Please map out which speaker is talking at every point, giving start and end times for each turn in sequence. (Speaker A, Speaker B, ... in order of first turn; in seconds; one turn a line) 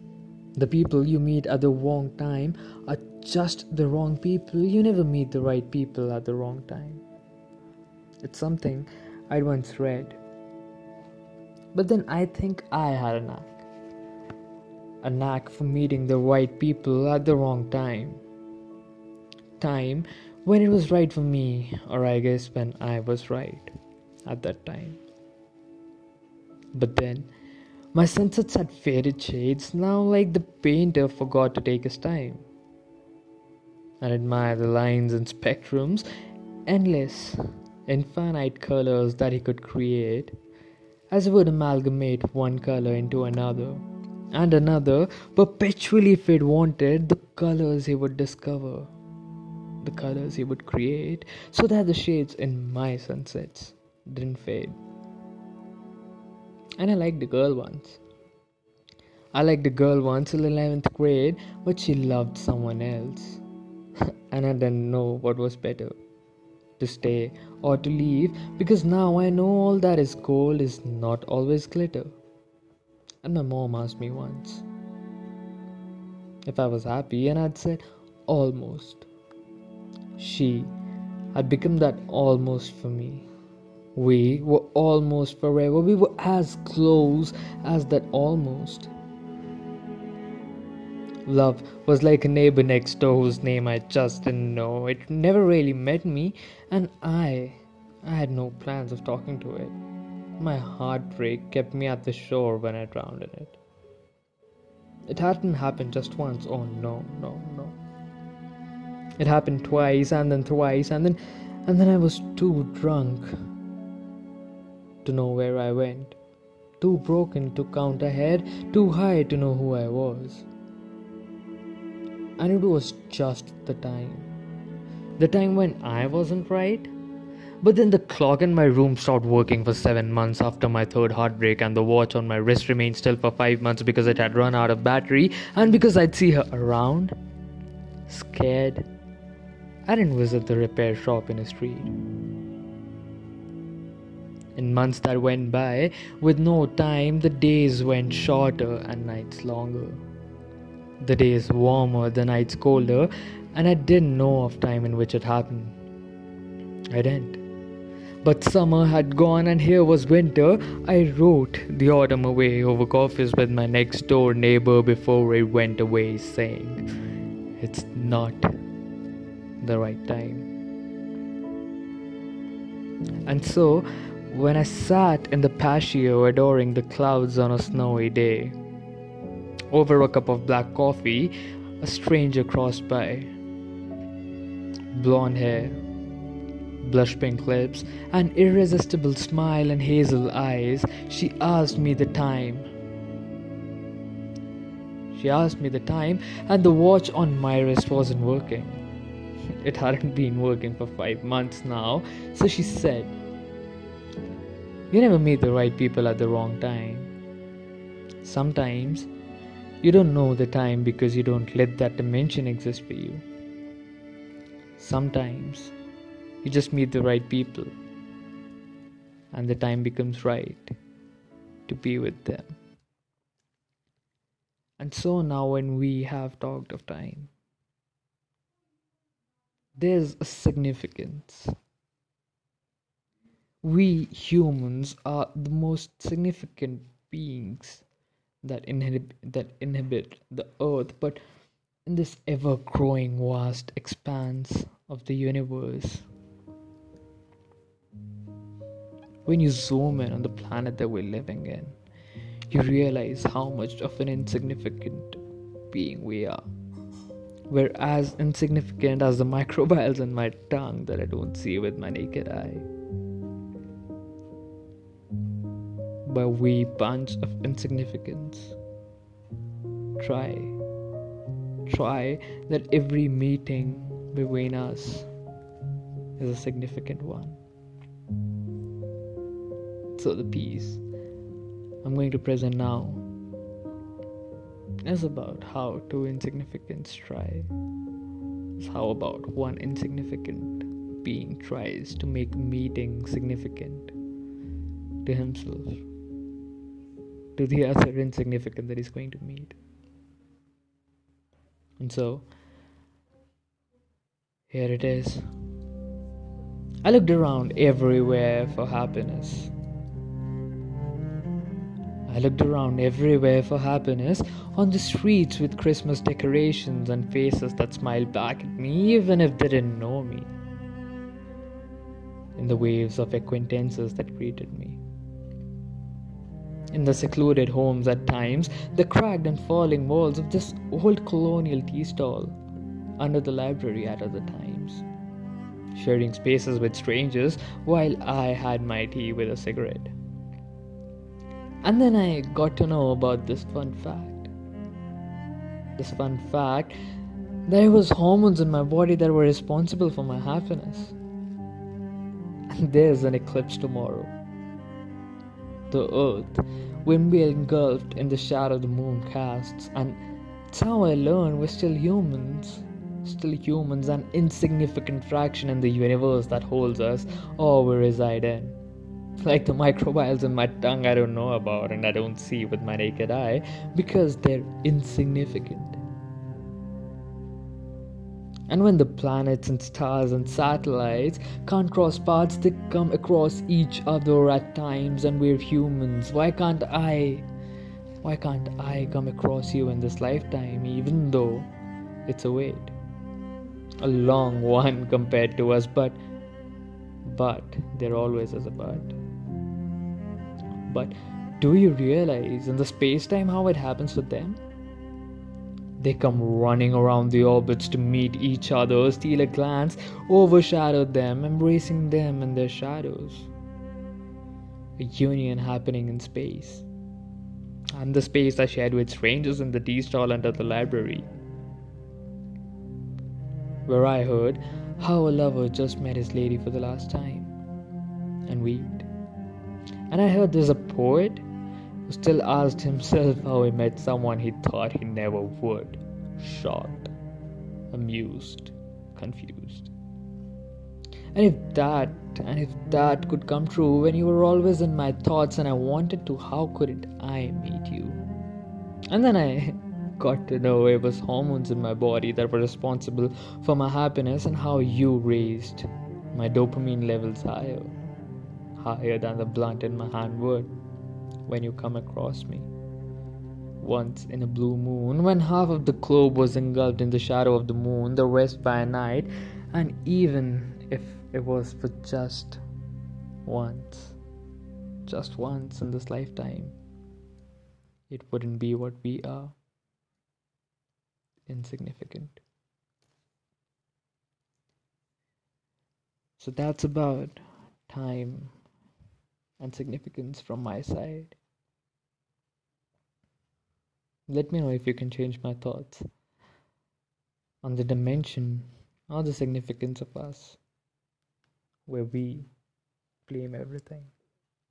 Speaker A: 0.6-7.0
Speaker A: 8.2-10.2
Speaker A: 11.7-13.6
Speaker A: 15.0-18.2
Speaker A: 19.6-23.7
Speaker A: 24.2-25.0
Speaker A: 26.7-27.3
Speaker A: 27.9-32.4
Speaker A: 34.0-36.0
Speaker A: 36.7-40.3
Speaker A: 41.1-48.9
Speaker A: 49.8-54.8
Speaker A: 56.8-58.0
Speaker A: 59.3-63.4
Speaker A: 64.3-66.0
Speaker A: 66.8-72.2
Speaker A: 73.2-74.6
Speaker A: 76.5-79.1
Speaker A: 80.2-80.7
Speaker A: 81.3-83.3
Speaker A: 84.0-88.9
Speaker A: 91.2-99.8
Speaker A: 100.4-103.6
Speaker A: 105.1-107.8
Speaker A: 109.2-113.3
Speaker A: 115.0-116.2
Speaker A: 116.8-120.5
Speaker A: 122.4-124.3
Speaker A: 125.2-126.9
Speaker A: 127.6-137.1
Speaker A: 138.1-138.9
Speaker A: 139.9-141.9
Speaker A: 144.6-150.0
Speaker A: 151.0-155.8
Speaker A: 156.9-157.4
Speaker A: 158.2-166.8
Speaker A: 167.6-168.5
Speaker A: 169.6-170.5
Speaker A: 173.2-178.6
Speaker A: 179.7-183.3
Speaker A: 184.9-185.8
Speaker A: 186.8-192.7
Speaker A: 195.1-198.8
Speaker A: 199.6-203.2
Speaker A: 204.9-207.1
Speaker A: 208.2-209.1
Speaker A: 209.8-213.2
Speaker A: 214.8-215.8
Speaker A: 216.4-217.7
Speaker A: 219.3-220.8
Speaker A: 221.7-222.6
Speaker A: 224.8-227.3
Speaker A: 229.8-231.5
Speaker A: 233.6-237.8
Speaker A: 238.4-241.2
Speaker A: 241.9-246.1
Speaker A: 249.2-251.8
Speaker A: 252.5-255.2
Speaker A: 255.7-256.4
Speaker A: 257.5-262.7
Speaker A: 266.1-268.6
Speaker A: 270.0-270.6
Speaker A: 271.7-275.1
Speaker A: 276.2-277.4
Speaker A: 279.9-280.8
Speaker A: 281.8-283.1
Speaker A: 284.8-287.5
Speaker A: 288.6-293.9
Speaker A: 295.0-295.8
Speaker A: 297.4-299.6
Speaker A: 301.8-302.2
Speaker A: 304.5-305.2
Speaker A: 306.8-309.5
Speaker A: 312.1-320.3
Speaker A: 322.4-324.8
Speaker A: 326.7-332.4
Speaker A: 333.0-334.9
Speaker A: 335.7-339.9
Speaker A: 341.6-344.3
Speaker A: 345.8-346.7
Speaker A: 347.4-350.9
Speaker A: 352.5-354.1
Speaker A: 355.7-360.0
Speaker A: 360.5-368.6
Speaker A: 369.2-375.8
Speaker A: 378.5-387.2
Speaker A: 388.0-391.5
Speaker A: 392.1-392.8
Speaker A: 393.8-396.0
Speaker A: 397.0-398.9
Speaker A: 400.7-404.4
Speaker A: 405.8-413.3
Speaker A: 414.8-416.7
Speaker A: 417.7-421.1
Speaker A: 423.6-427.3
Speaker A: 428.3-428.9
Speaker A: 429.9-431.2
Speaker A: 431.9-436.9
Speaker A: 437.7-439.7
Speaker A: 441.1-448.0
Speaker A: 448.9-457.8
Speaker A: 458.6-460.5
Speaker A: 461.2-462.5
Speaker A: 463.6-472.4
Speaker A: 473.2-474.0
Speaker A: 474.9-476.6
Speaker A: 477.9-479.4
Speaker A: 481.3-482.2
Speaker A: 486.2-488.4
Speaker A: 489.4-491.2
Speaker A: 494.1-495.8
Speaker A: 497.4-500.4
Speaker A: 501.7-502.3
Speaker A: 503.1-503.9